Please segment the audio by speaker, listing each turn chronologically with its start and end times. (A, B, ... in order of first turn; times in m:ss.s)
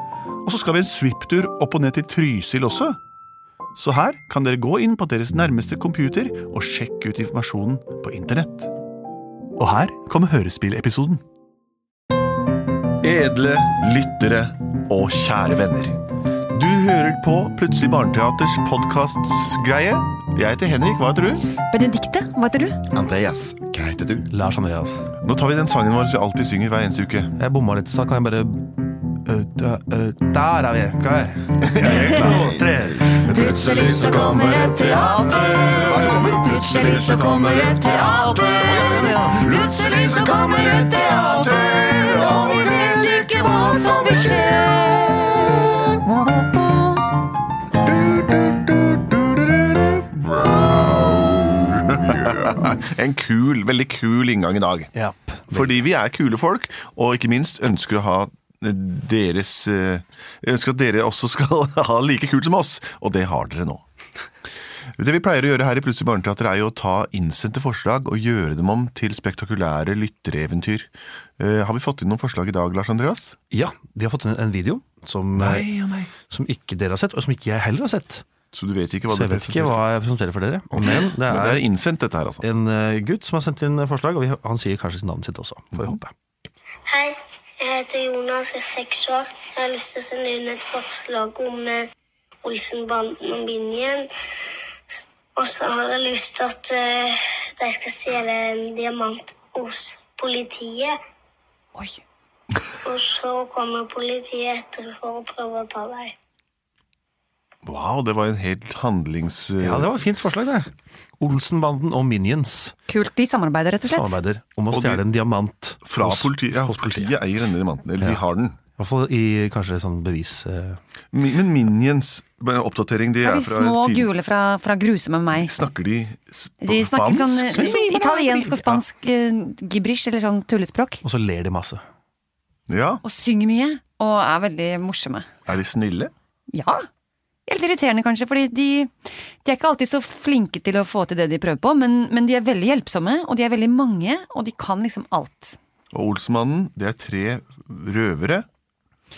0:00.4-0:03.0 A
0:03.8-0:08.7 A
0:09.6-0:11.2 A
0:13.0-0:16.0 A
0:16.5-0:21.5 A
0:21.7-0:22.9 B
0:22.9-0:24.3 C
0:24.3-0:25.1 D
0:25.2-0:27.4 A
0:27.4-0:33.0 D
0:31.6-0:32.6 A
0:31.8-0:45.5 C
0:33.1-0:45.6 B
0:33.3-0:34.2 A
0:35.8-0:36.2 A
0:48.0-0:50.0 A
0:50.1-0:52.8 C
0:52.4-0:54.9 A
0:55.0-0:55.7 D
0:55.5-1:03.8 A
1:05.0-1:13.4 A
1:13.5-1:15.7 D
1:15.4-1:16.1 A
1:16.3-1:18.2 D
1:18.5-1:19.8 A
1:19.1-1:21.6 D
1:20.7-1:22.4 A
1:22.4-1:26.1 D
1:26.9-1:31.9 E
1:32.4-1:34.1 E
1:34.9-1:41.0 E
1:41.8-1:42.0 B
1:42.8-1:46.1 E
1:47.6-1:49.9 A
1:49.6-1:52.7 D
1:52.9-1:54.2 B
1:53.9-1:57.1 D
1:54.7-1:55.0 A
1:55.8-1:58.6 A
1:58.8-2:00.8 D
2:01.1-2:04.1 A
2:03.2-2:05.5 B
2:05.3-2:07.8 A
2:06.6-2:11.0 B
2:07.4-2:08.8 D
2:11.0-2:11.8 D
2:12.7-2:13.0 A
2:13.0-2:15.3 B
2:15.5-2:16.1 A
2:16.5-2:16.9 B
2:17.5-2:18.9 B
2:19.4-2:25.6 B
2:25.9-2:28.5 A